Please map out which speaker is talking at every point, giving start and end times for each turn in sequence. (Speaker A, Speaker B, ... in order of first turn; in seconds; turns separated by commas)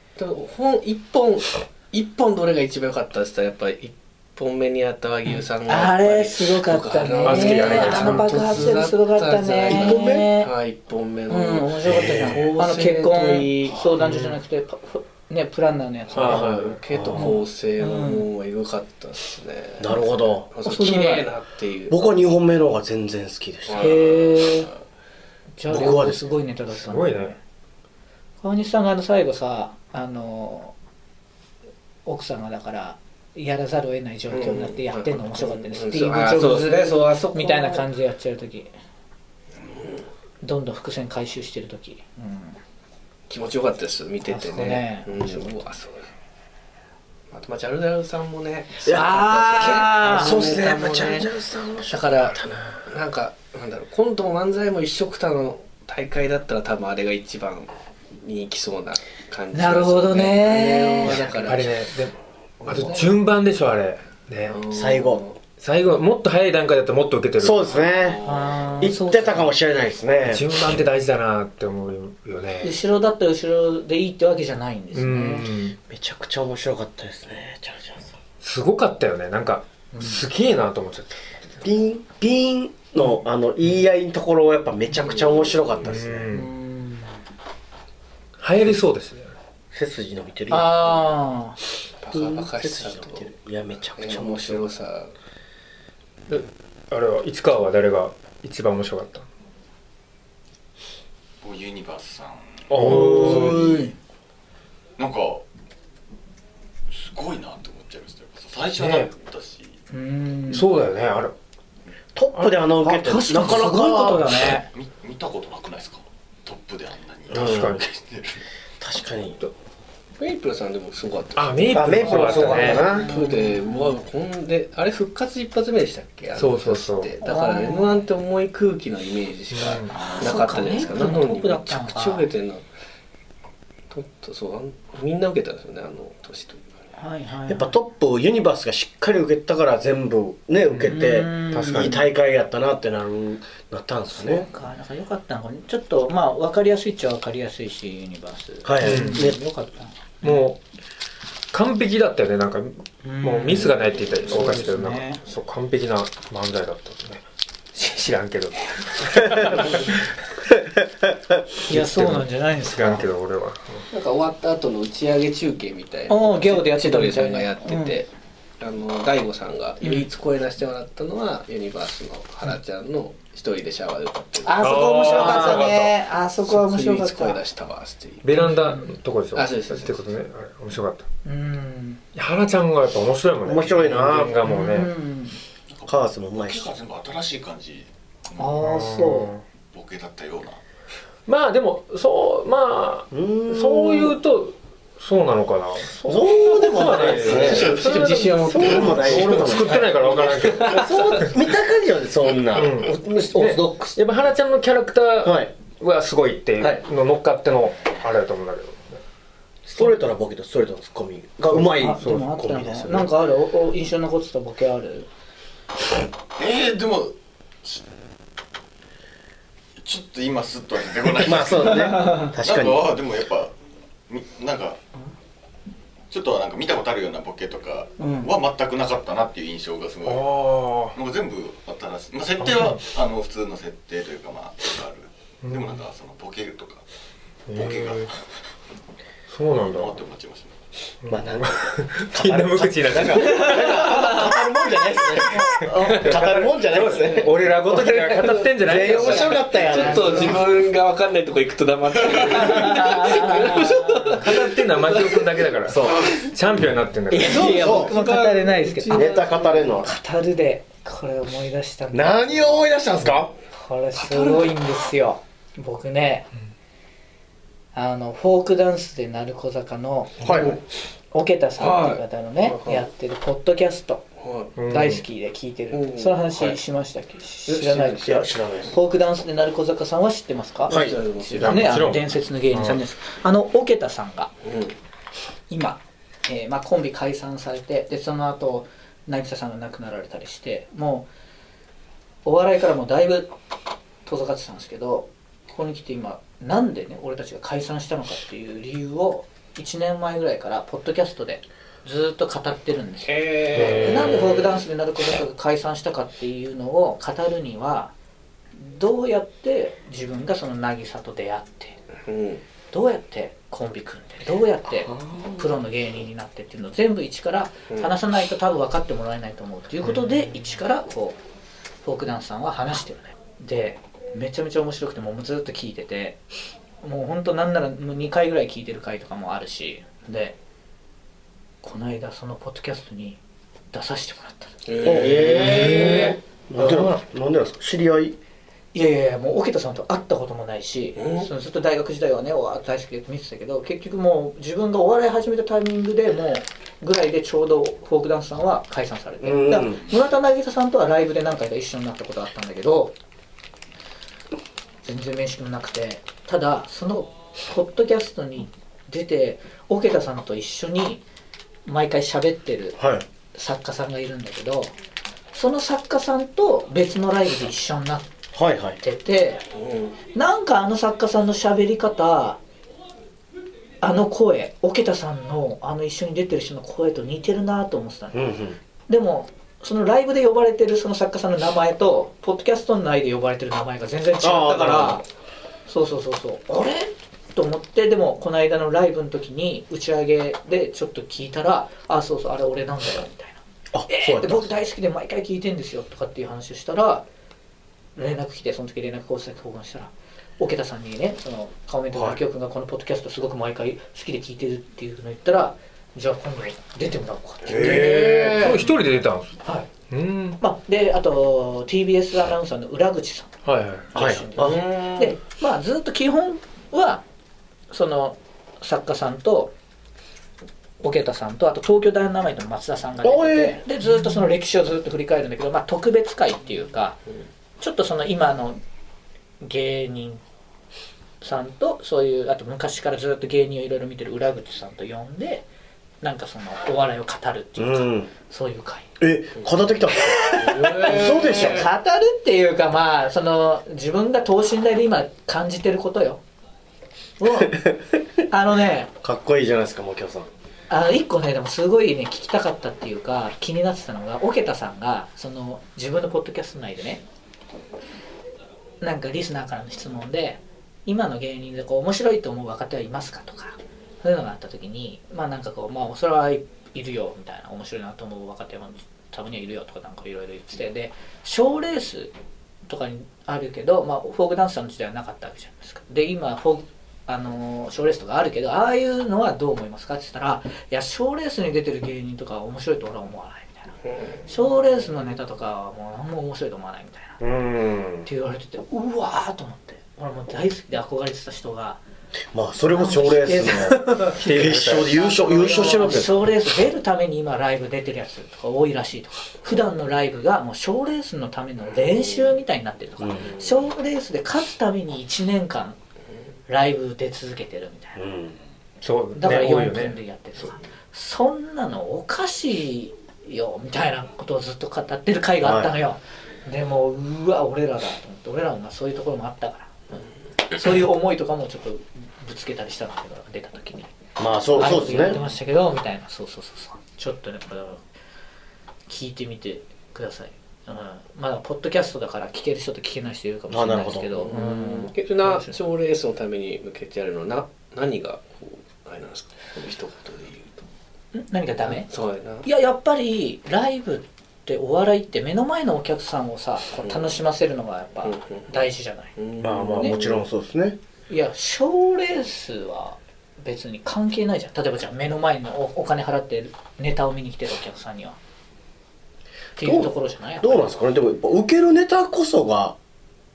Speaker A: 0.2-13.9, Speaker B: 5.7-10.5, Speaker C: 7.2-8.7, Speaker D: 9.7-10.3, Speaker B: 11.3-16.5, Speaker D: 11.8-12.4, Speaker C: 14.0-14.4, Speaker C: 16.1-16.8, Speaker A: 16.2-22.0, Speaker D: 16.4-17.3, Speaker B: 17.2-18.3, Speaker D: 19.8-20.5, Speaker B: 20.6-21.3, Speaker D: 21.9-23.9, Speaker A: 23.7-24.7, Speaker B: 23.8-24.7, Speaker B: 25.6-27.4, Speaker D: 25.7-26.3, Speaker C: 26.7-27.3, Speaker B: 28.4-30.7, Speaker B: 32.0-38.7, Speaker A: 34.3-37.9, Speaker A: 39.6-40.0, Speaker B: 40.4-42.6, Speaker A: 43.3-46.1, Speaker B: 44.2-45.1, Speaker A: 47.3-51.3, Speaker D: 48.8-52.6, Speaker B: 48.9-50.4, Speaker A: 51.9-61.8, Speaker B: 59.5-61.2, Speaker C: 61.4-62.1, Speaker C: 62.6-64.6, Speaker A: 64.5-65.4, Speaker D: 64.7-65.2, Speaker C: 65.6-67.7, Speaker D: 67.4-68.2, Speaker A: 68.0-68.6, Speaker B: 68.2-69.5, Speaker D: 68.8-70.5, Speaker C: 70.2-72.8, Speaker B: 72.6-75.5, Speaker C: 74.9-75.8, Speaker D: 75.9-78.2, Speaker C: 78.4-81.1, Speaker B: 79.9-80.2, Speaker D: 81.6-86.3, Speaker A: 85.1-85.6, Speaker C: 85.8-86.5, Speaker B: 86.3-87.2, Speaker C: 88.4-89.3, Speaker D: 89.7-90.9, Speaker B: 90.5-91.6, Speaker A: 92.0-93.3, Speaker D: 92.1-94.7, Speaker A: 94.0-95.1, Speaker C: 96.3-99.3, Speaker E: 101.4-102.9, Speaker C: 102.7-103.7, Speaker D: 102.8-103.9, Speaker B: 102.9-103.9, Speaker E: 105.0-105.4, Speaker E: 106.9-109.8, Speaker C: 108.8-109.1, Speaker B: 109.9-110.7, Speaker C: 110.5-111.3, Speaker D: 112.1-114.5, Speaker B: 112.8-114.7, Speaker E: 114.6-118.4, Speaker D: 117.3-117.8, Speaker C: 117.3-117.8, Speaker D: 118.8-119.4, Speaker A: 120.2-132.6, Speaker C: 121.3-123.0, Speaker D: 121.7-123.1, Speaker B: 122.0-123.9, Speaker C: 126.3-127.1, Speaker B: 127.2-128.0, Speaker C: 129.5-130.0, Speaker B: 129.9-132.3, Speaker A: 133.9-136.8, Speaker B: 137.0-137.8, Speaker D: 137.5-144.5, Speaker C: 140.7-142.0, Speaker B: 140.8-142.0, Speaker B: 144.2-150.3, Speaker D: 148.6-149.4, Speaker C: 148.8-149.3, Speaker C: 150.2-150.6, Speaker C: 151.5-160.0, Speaker B: 153.0-155.2, Speaker B: 161.7-163.1, Speaker C: 161.7-163.8, Speaker A: 163.9-175.7, Speaker B: 166.1-167.9, Speaker B: 169.8-170.1, Speaker B: 174.4-177.4, Speaker C: 174.6-175.9, Speaker A: 176.4-178.4, Speaker C: 178.2-181.1, Speaker B: 178.4-178.9, Speaker A: 179.3-180.1, Speaker B: 181.2-182.0, Speaker C: 182.1-184.9, Speaker D: 183.4-184.5, Speaker B: 184.4-185.4, Speaker E: 185.7-188.6, Speaker D: 185.9-186.7, Speaker B: 188.4-189.3, Speaker C: 188.6-189.4, Speaker E: 189.7-190.6, Speaker C: 191.3-201.3, Speaker D: 193.1-194.2, Speaker D: 196.0-197.8, Speaker A: 196.9-201.2, Speaker D: 198.4-200.0, Speaker D: 200.6-204.0, Speaker C: 202.5-209.0, Speaker D: 205.2-205.5, Speaker D: 209.7-213.1, Speaker C: 211.5-212.2, Speaker B: 211.7-215.1, Speaker E: 216.4-217.8, Speaker E: 219.8-223.5, Speaker D: 221.1-222.9, Speaker B: 221.8-222.3, Speaker E: 224.1-224.8, Speaker E: 226.1-236.8, Speaker B: 228.0-228.3, Speaker C: 230.0-230.9, Speaker C: 232.4-232.8, Speaker C: 235.4-235.8, Speaker C: 237.5-238.1, Speaker E: 237.5-238.2, Speaker C: 239.3-240.0, Speaker E: 239.5-240.5, Speaker C: 241.0-243.9, Speaker D: 241.1-250.4, Speaker B: 245.3-246.0, Speaker C: 245.6-249.6, Speaker A: 247.7-255.4, Speaker B: 248.9-250.3, Speaker B: 252.3-254.2, Speaker C: 254.1-257.6, Speaker D: 255.7-256.1, Speaker B: 257.1-259.2, Speaker A: 257.2-259.8, Speaker D: 257.6-257.9, Speaker D: 258.9-259.9, Speaker B: 259.7-262.4, Speaker D: 261.9-263.3, Speaker B: 263.5-266.3, Speaker A: 263.9-264.5, Speaker B: 267.7-270.2, Speaker D: 270.2-270.6, Speaker A: 270.3-270.6, Speaker B: 271.1-274.0, Speaker A: 271.6-272.8, Speaker A: 274.2-274.5, Speaker C: 274.6-275.0, Speaker B: 274.7-284.3, Speaker A: 275.7-276.5, Speaker A: 277.5-278.2, Speaker D: 278.0-278.8, Speaker A: 280.7-281.8, Speaker D: 280.7-281.0, Speaker C: 281.4-282.8, Speaker A: 284.4-284.8, Speaker B: 285.5-291.1, Speaker B: 292.2-293.3, Speaker B: 294.1-307.9, Speaker A: 303.1-304.6, Speaker C: 303.5-304.3, Speaker B: 308.5-311.8, Speaker A: 312.1-312.4, Speaker B: 312.7-321.2, Speaker D: 314.9-315.4, Speaker B: 321.8-326.2, Speaker B: 326.8-330.4, Speaker B: 331.6-333.2, Speaker B: 333.7-334.8, Speaker A: 334.7-336.1, Speaker D: 334.8-338.2, Speaker C: 335.3-336.2, Speaker B: 338.7-352.9, Speaker A: 341.0-341.3, Speaker D: 349.2-349.8, Speaker B: 354.8-361.0, Speaker B: 361.6-362.8, Speaker D: 362.8-363.0, Speaker B: 363.3-364.7, Speaker B: 365.3-368.1, Speaker D: 368.3-368.8, Speaker B: 368.8-369.4, Speaker A: 369.5-369.9, Speaker B: 370.1-372.4, Speaker B: 373.8-378.3, Speaker D: 378.1-378.6, Speaker B: 378.9-385.0, Speaker D: 384.2-385.0, Speaker B: 385.6-397.0, Speaker D: 393.7-394.5, Speaker B: 397.9-408.6, Speaker D: 401.9-402.2, Speaker D: 407.4-408.3, Speaker A: 407.5-408.6, Speaker C: 407.9-409.4, Speaker B: 409.4-409.7, Speaker C: 409.9-410.4, Speaker B: 410.4-413.3, Speaker C: 413.4-413.9, Speaker B: 413.9-417.0, Speaker D: 413.9-414.6, Speaker A: 414.4-415.1, Speaker B: 417.7-419.5, Speaker B: 420.8-427.0, Speaker D: 423.0-423.6, Speaker B: 427.6-428.6, Speaker B: 429.4-430.2, Speaker B: 431.2-435.4, Speaker B: 436.0-438.9, Speaker D: 437.6-438.1, Speaker D: 439.0-441.6, Speaker B: 440.3-440.7, Speaker A: 440.4-441.6, Speaker B: 441.2-446.2, Speaker B: 447.2-447.6, Speaker B: 448.3-448.9, Speaker D: 449.0-450.3, Speaker B: 450.7-457.0, Speaker B: 458.8-472.1, Speaker B: 472.6-483.7, Speaker A: 483.8-484.2, Speaker B: 484.2-487.2, Speaker D: 487.2-488.1, Speaker B: 488.0-491.8, Speaker D: 492.3-496.4, Speaker B: 492.6-505.8, Speaker C: 494.1-495.0, Speaker D: 503.0-503.4, Speaker B: 506.5-508.0, Speaker D: 507.9-508.4, Speaker C: 508.8-510.5, Speaker B: 509.1-523.9, Speaker D: 515.4-515.7, Speaker D: 524.2-525.2, Speaker B: 524.5-527.8, Speaker B: 528.9-535.6, Speaker D: 533.5-534.2, Speaker A: 534.2-540.6, Speaker B: 541.1-541.9, Speaker A: 541.7-542.5, Speaker B: 542.4-549.1, Speaker A: 546.8-547.2, Speaker A: 548.0-550.2, Speaker D: 549.4-550.8, Speaker B: 551.1-558.2, Speaker B: 559.5-560.7, Speaker D: 559.6-562.8